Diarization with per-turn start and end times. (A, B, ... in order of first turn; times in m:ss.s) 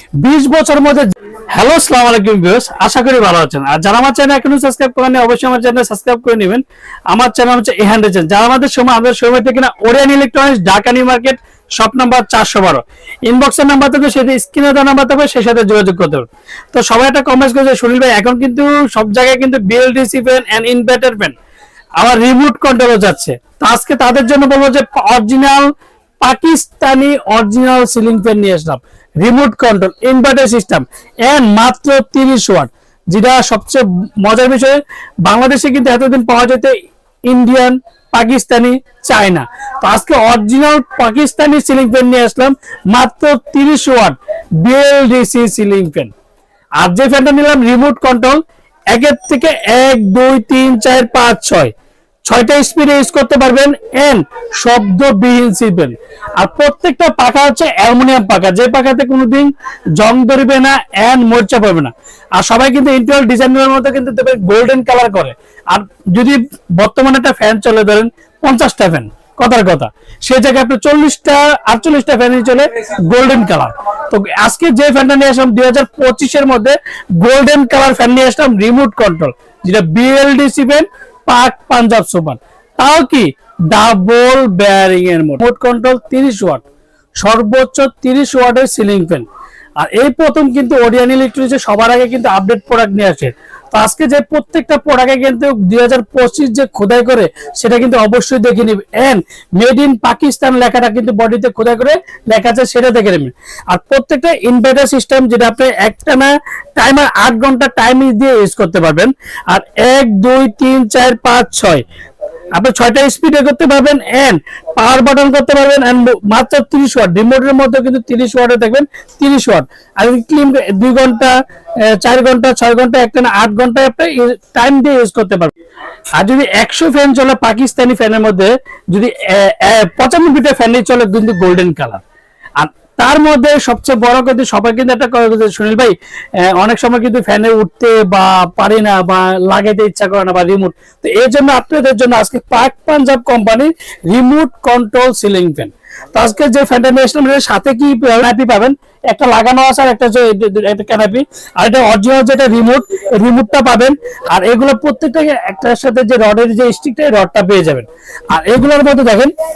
0:00.2-0:21.4 A
0:22.0-0:25.7 A
0:26.2-0:46.1 A
0:46.8-0:51.7 A
0:52.2-1:26.6 A
1:27.2-1:29.2 A
1:29.8-1:51.8 A
1:52.5-2:01.3 A
2:01.8-2:05.5 A
2:06.2-2:12.0 A
2:12.6-2:39.3 A